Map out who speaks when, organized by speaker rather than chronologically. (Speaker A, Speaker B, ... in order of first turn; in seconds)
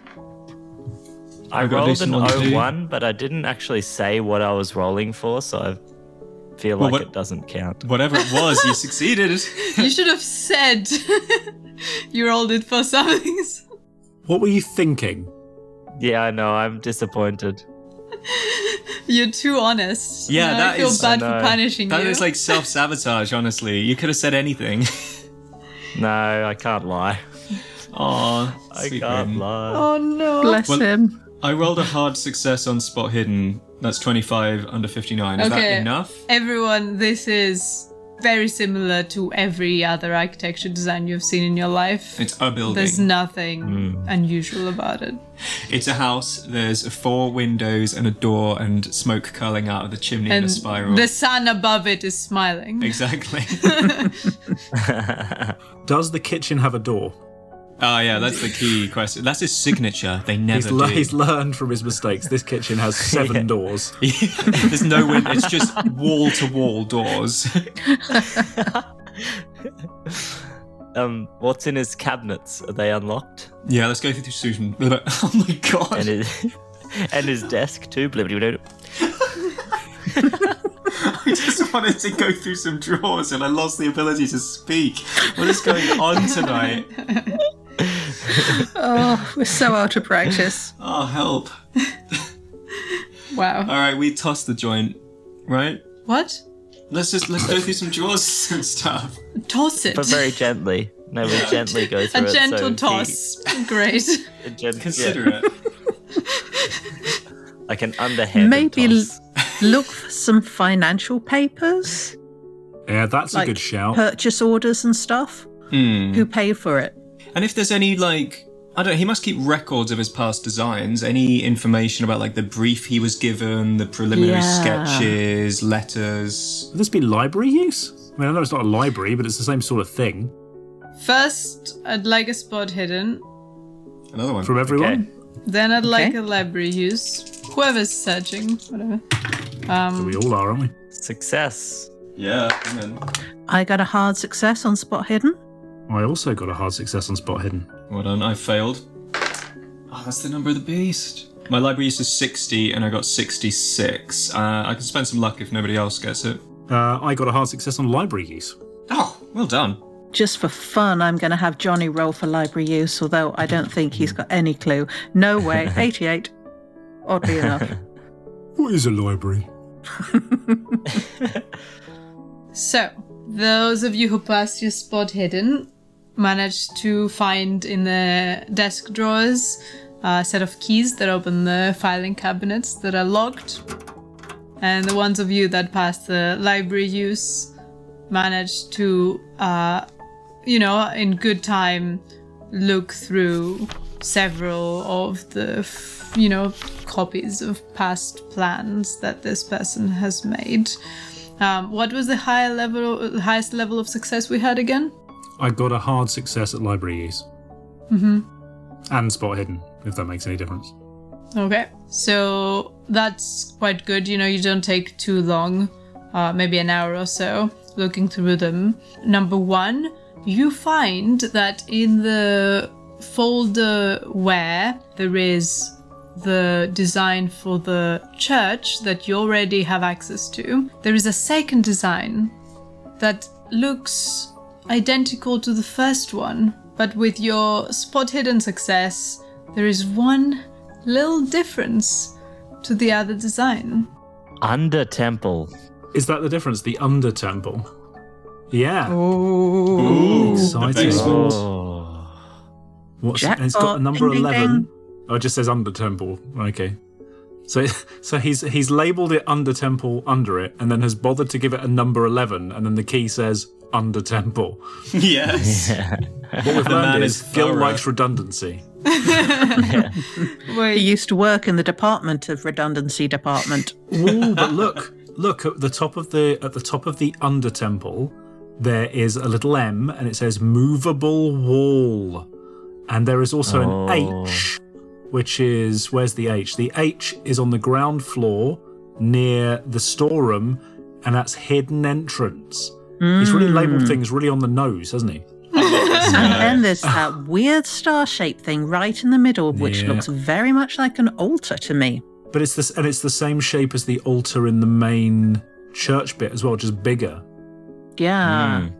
Speaker A: 1.5-5.8, 6.6-7.8, 16.0-17.6, 21.0-21.6, 25.9-27.2, 28.7-29.9, 43.6-44.1, 54.9-55.5, 63.0-63.5, 68.5-69.4, 70.1-70.3, 70.9-73.5, 75.9-78.6, 99.9-103.2, 104.4-105.3, 107.7-109.2, 134.7-135.0, 140.9-141.9, 244.4-245.5, 250.8-252.2, 265.4-266.6, 269.6-269.9, 283.4-284.4, 308.2-308.7
Speaker B: 1.5-2.7, 6.8-7.1, 7.8-9.9, 20.3-21.1, 21.9-25.1, 27.9-29.4, 31.4-36.2, 42.2-43.1, 45.6-51.1, 52.8-53.9, 57.8-61.1, 64.0-67.7, 73.6-76.1, 80.9-86.9, 90.8-91.5, 93.6-95.8, 96.9-99.2, 101.2-101.7, 104.8-105.5, 115.7-116.3, 117.3-126.7, 134.1-134.8, 142.2-143.0, 147.9-148.8, 149.9-156.4, 158.9-159.8, 249.7-251.4, 264.9-265.8, 266.4-267.8, 295.5-296.6
Speaker C: 8.2-8.7, 9.7-13.6, 18.3-22.6, 29.7-30.6, 35.4-45.2, 50.3-53.0, 53.6-54.3, 86.3-87.4, 93.3-93.7, 96.0-96.4, 99.4-100.3, 101.8-104.3, 106.2-107.2, 131.0-133.2, 135.4-140.2, 172.5-183.6, 184.6-187.5, 188.1-189.8, 190.4-200.8, 201.4-204.9, 207.9-208.3, 211.3-232.3, 233.0-243.9, 268.9-270.9, 295.5-296.4
Speaker D: 14.2-15.3, 55.8-57.1, 60.5-64.0, 112.9-114.0, 126.7-130.3, 134.4-135.1, 139.9-140.7, 145.9-147.7, 156.7-158.5, 168.6-169.5, 205.4-207.2, 208.9-210.7, 245.9-247.7, 248.5-249.0, 249.9-251.4, 253.0-256.8, 257.5-264.6, 266.4-269.2, 273.9-282.3, 282.9-295.2, 296.1-297.1, 299.5-300.1, 302.3-307.2
Speaker E: 30.4-31.2, 88.5-90.7, 108.3-112.1, 113.3-115.5, 116.1-116.9, 124.1-125.2, 135.8-136.1, 143.5-145.3, 160.1-166.3, 167.0-167.7, 170.0-170.8, 248.9-250.7, 253.2-254.7, 270.7-273.8, 293.0-294.0, 296.1-302.0, 308.0-308.7